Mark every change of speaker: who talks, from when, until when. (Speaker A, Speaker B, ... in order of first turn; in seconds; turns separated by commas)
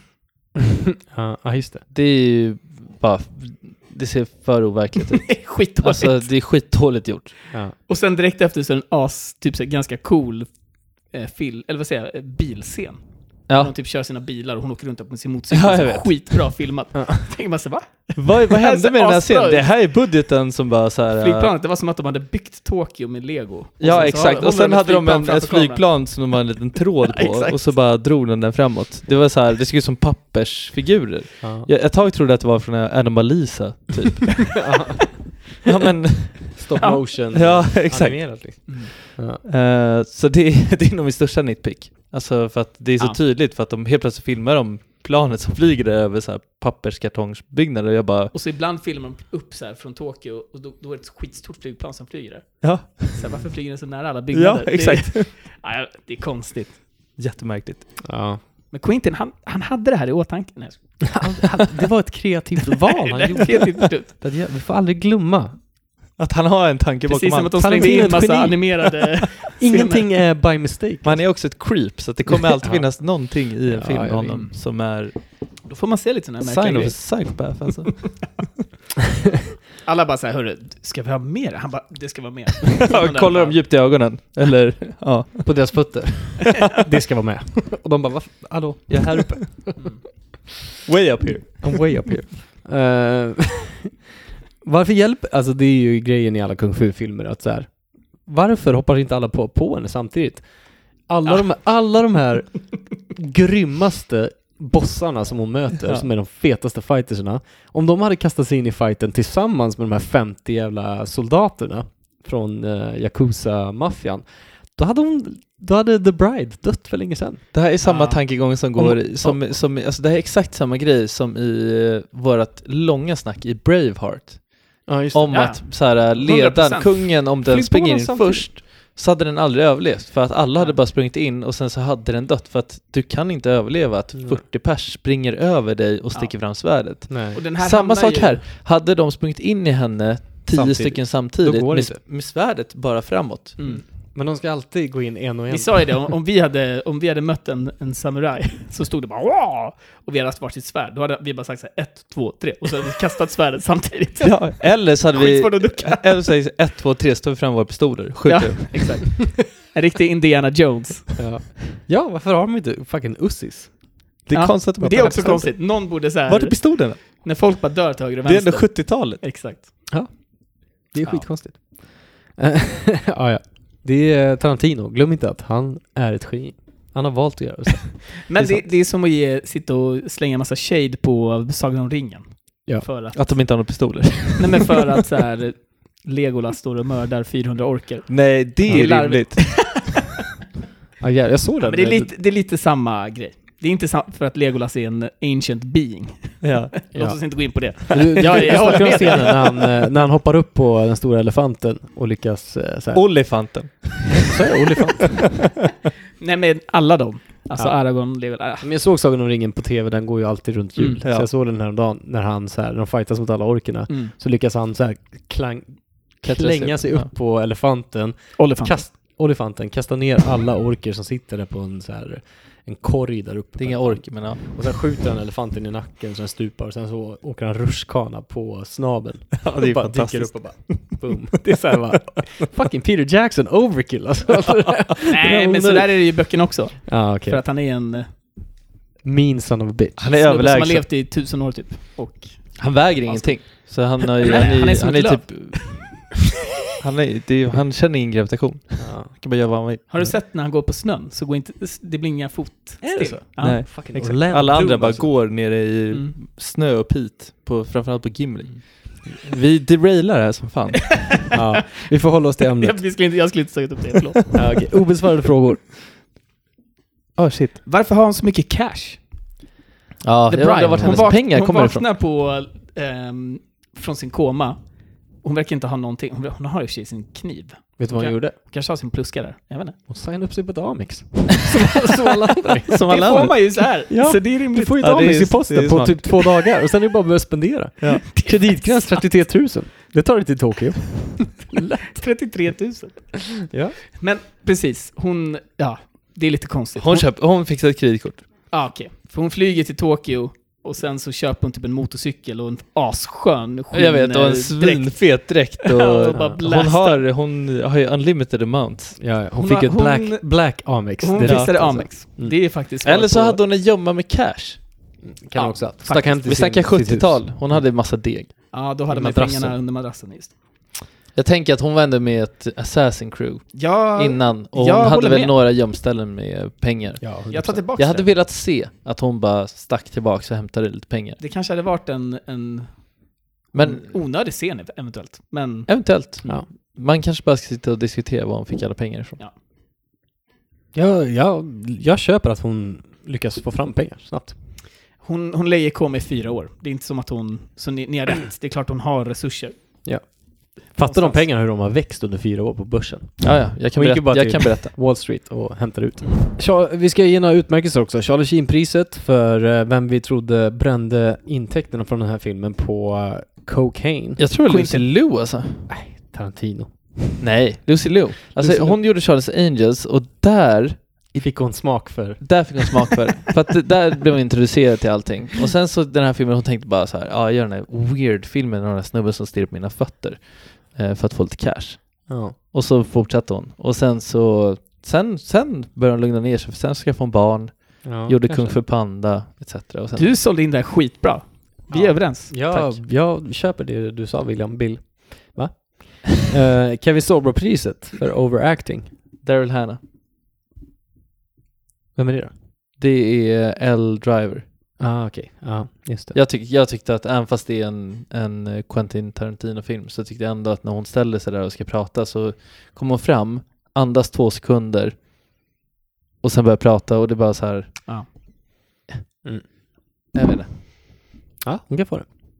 Speaker A: 1.1-1.8, Speaker B: 1.9-7.3, Speaker C: 5.1-6.3, Speaker C: 7.8-10.5, Speaker C: 11.0-19.7, Speaker B: 13.5-13.7, Speaker B: 15.5-16.5, Speaker A: 16.9-17.2, Speaker B: 18.1-21.5, Speaker C: 21.2-25.8, Speaker B: 23.8-34.7, Speaker C: 27.0-27.6, Speaker A: 31.4-31.7, Speaker A: 34.5-35.5, Speaker B: 35.6-36.7, Speaker A: 36.5-39.4, Speaker C: 36.8-37.0, Speaker B: 37.3-48.3, Speaker C: 38.7-38.9, Speaker C: 48.3-56.8, Speaker B: 52.6-53.4, Speaker B: 54.3-55.3, Speaker B: 57.1-58.0, Speaker A: 58.0-58.4, Speaker C: 58.7-61.2, Speaker A: 61.1-65.6, Speaker C: 62.9-64.1, Speaker B: 66.2-68.1, Speaker C: 67.1-70.1, Speaker A: 67.6-68.9, Speaker A: 69.5-71.6, Speaker B: 71.0-75.5, Speaker A: 72.6-74.4, Speaker C: 74.2-74.6, Speaker C: 75.6-77.9, Speaker B: 76.4-78.5, Speaker C: 79.8-83.6, Speaker B: 82.8-85.8, Speaker A: 85.4-89.7, Speaker B: 88.9-89.7, Speaker B: 90.8-91.9, Speaker A: 91.6-93.9, Speaker A: 94.6-117.5, Speaker B: 117.5-143.6, Speaker C: 117.8-118.2, Speaker A: 118.7-119.5, Speaker A: 124.8-125.5, Speaker C: 125.3-127.2, Speaker A: 127.4-128.5, Speaker A: 134.1-134.4, Speaker A: 137.1-137.4, Speaker C: 137.3-138.4, Speaker A: 140.5-142.0, Speaker C: 143.6-143.8, Speaker A: 143.6-146.1, Speaker C: 145.5-156.2, Speaker B: 154.2-159.1, Speaker C: 158.2-161.2, Speaker A: 161.2-163.9, Speaker B: 164.3-167.2, Speaker C: 164.3-169.7, Speaker A: 164.8-165.1, Speaker B: 168.2-169.4, Speaker A: 169.9-178.7, Speaker C: 178.2-183.2, Speaker B: 183.1-184.9, Speaker C: 184.4-190.0, Speaker B: 188.1-189.9, Speaker A: 191.0-192.1, Speaker C: 191.6-199.7, Speaker B: 196.4-196.8, Speaker A: 196.9-203.1, Speaker B: 202.9-204.3, Speaker A: 204.2-205.2, Speaker C: 206.2-208.7, Speaker A: 208.6-236.1, Speaker C: 210.8-211.0, Speaker B: 211.0-211.3, Speaker B: 216.2-217.1, Speaker C: 218.4-218.9, Speaker B: 223.6-224.4, Speaker B: 229.4-230.9, Speaker C: 235.1-238.1, Speaker A: 236.9-237.4, Speaker A: 239.0-240.1, Speaker B: 240.0-240.9, Speaker C: 240.1-245.9, Speaker B: 242.6-246.1, Speaker B: 246.8-250.2, Speaker A: 248.8-249.1, Speaker C: 249.9-253.7, Speaker A: 252.8-255.2, Speaker B: 253.4-261.2, Speaker C: 255.9-256.2, Speaker C: 260.8-261.6, Speaker A: 261.3-262.9, Speaker C: 262.6-264.6, Speaker A: 264.3-265.6, Speaker B: 267.2-267.6, Speaker C: 267.6-269.3, Speaker B: 270.0-271.9, Speaker C: 270.3-279.8, Speaker A: 270.7-271.1, Speaker A: 277.8-278.4, Speaker A: 279.9-282.8, Speaker B: 282.7-284.2, Speaker C: 282.7-285.2, Speaker A: 283.9-291.9, Speaker B: 284.8-286.3, Speaker B: 287.8-288.0, Speaker C: 287.9-289.0, Speaker C: 291.8-293.3, Speaker A: 293.5-293.8, Speaker C: 294.0-297.1, Speaker B: 296.7-298.2, Speaker C: 298.5-307.0, Speaker B: 303.7-309.0, Speaker A: 309.0-312.4, Speaker C: 309.3-313.4, Speaker B: 311.2-311.9, Speaker B: 312.8-315.0, Speaker A: 315.0-317.6, Speaker C: 315.3-316.4, Speaker B: 315.9-318.5, Speaker C: 318.5-320.7, Speaker A: 318.9-319.6, Speaker B: 321.1-331.2, Speaker C: 323.5-325.3, Speaker A: 327.0-327.6, Speaker C: 327.3-328.1, Speaker C: 331.2-335.7, Speaker B: 333.5-333.9, Speaker B: 335.7-339.2, Speaker A: 340.7-344.4, Speaker C: 345.0-349.6, Speaker A: 349.8-364.3, Speaker C: 350.8-351.2, Speaker B: 353.2-354.7, Speaker B: 364.2-365.7, Speaker C: 364.4-364.9, Speaker A: 365.7-367.2, Speaker B: 367.2-390.1, Speaker A: 368.4-368.8, Speaker A: 371.1-372.9, Speaker A: 382.1-382.4, Speaker A: 387.8-388.6, Speaker C: 389.9-392.4, Speaker A: 391.7-398.9, Speaker B: 392.5-392.8, Speaker B: 399.2-399.8, Speaker A: 401.9-402.3, Speaker B: 402.8-404.4, Speaker A: 404.8-406.2, Speaker B: 406.1-414.9, Speaker B: 416.2-418.1, Speaker B: 420.1-420.5, Speaker A: 421.4-422.1